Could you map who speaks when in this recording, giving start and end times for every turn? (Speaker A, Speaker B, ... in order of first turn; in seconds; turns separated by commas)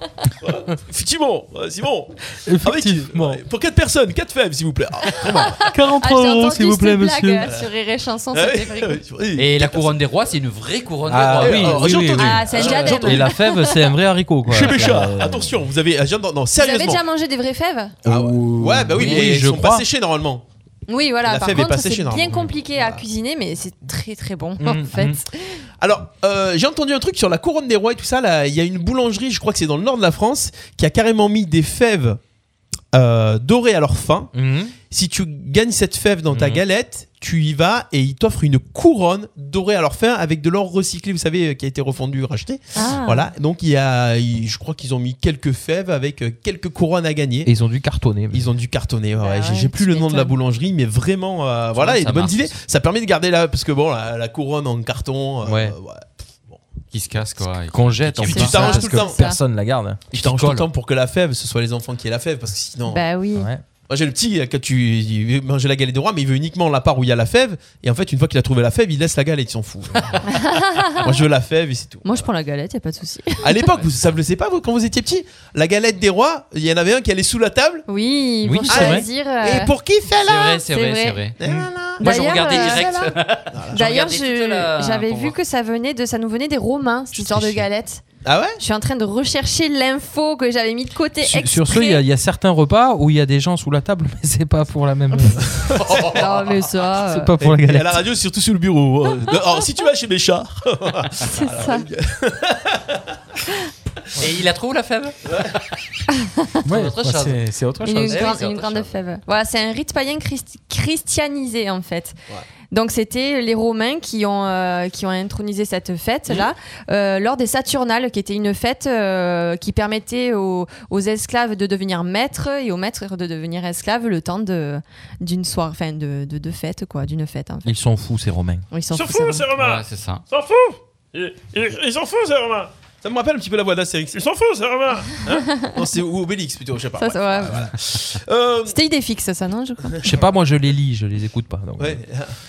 Speaker A: 0.4-5.7, Speaker B: 2.5-3.4, Speaker C: 5.5-9.0, Speaker B: 5.6-7.5, Speaker A: 8.3-10.0, Speaker D: 9.4-12.2, Speaker A: 11.1-13.3, Speaker B: 11.1-15.5, Speaker C: 12.1-13.8, Speaker A: 14.4-17.0, Speaker C: 16.6-18.0, Speaker A: 18.0-20.4, Speaker B: 18.0-19.8, Speaker C: 20.9-25.6, Speaker A: 21.2-23.0, Speaker B: 24.6-25.2, Speaker A: 25.8-32.2, Speaker A: 32.9-34.3, Speaker B: 34.3-34.8, Speaker A: 34.9-47.5, Speaker B: 36.3-36.6, Speaker C: 42.7-43.3, Speaker B: 47.4-48.5, Speaker A: 48.3-56.6, Speaker C: 49.2-50.3, Speaker D: 51.7-52.6, Speaker B: 55.4-55.7, Speaker D: 56.9-58.7, Speaker B: 57.7-60.1, Speaker A: 58.2-59.3, Speaker C: 58.3-59.4, Speaker D: 60.1-60.7, Speaker A: 60.1-63.0, Speaker C: 62.9-63.5, Speaker B: 63.4-63.6, Speaker A: 63.9-72.2, Speaker C: 70.3-71.1, Speaker C: 72.0-73.5, Speaker A: 73.4-77.8, Speaker C: 77.9-79.7, Speaker B: 78.4-79.0, Speaker A: 78.7-80.6, Speaker D: 80.2-81.4, Speaker C: 80.7-81.2, Speaker A: 81.4-83.8, Speaker C: 82.0-83.1, Speaker D: 82.0-85.3, Speaker C: 83.7-88.0, Speaker A: 88.2-88.6, Speaker C: 88.6-92.0, Speaker B: 91.2-95.5, Speaker A: 95.5-96.2, Speaker D: 95.8-96.2, Speaker C: 96.1-97.3, Speaker B: 97.0-98.0, Speaker A: 97.4-103.2, Speaker C: 101.2-101.8, Speaker D: 104.2-105.7, Speaker C: 106.1-106.6, Speaker B: 106.6-108.3, Speaker D: 106.7-107.5, Speaker C: 107.8-112.1, Speaker D: 108.0-108.9, Speaker C: 112.7-127.7, Speaker B: 127.6-128.7, Speaker C: 128.7-129.5, Speaker E: 128.9-132.7, Speaker D: 129.5-130.2, Speaker A: 133.0-138.8, Speaker C: 135.4-135.7, Speaker C: 137.0-137.7, Speaker C: 138.7-140.0, Speaker B: 140.0-142.0, Speaker A: 141.8-142.3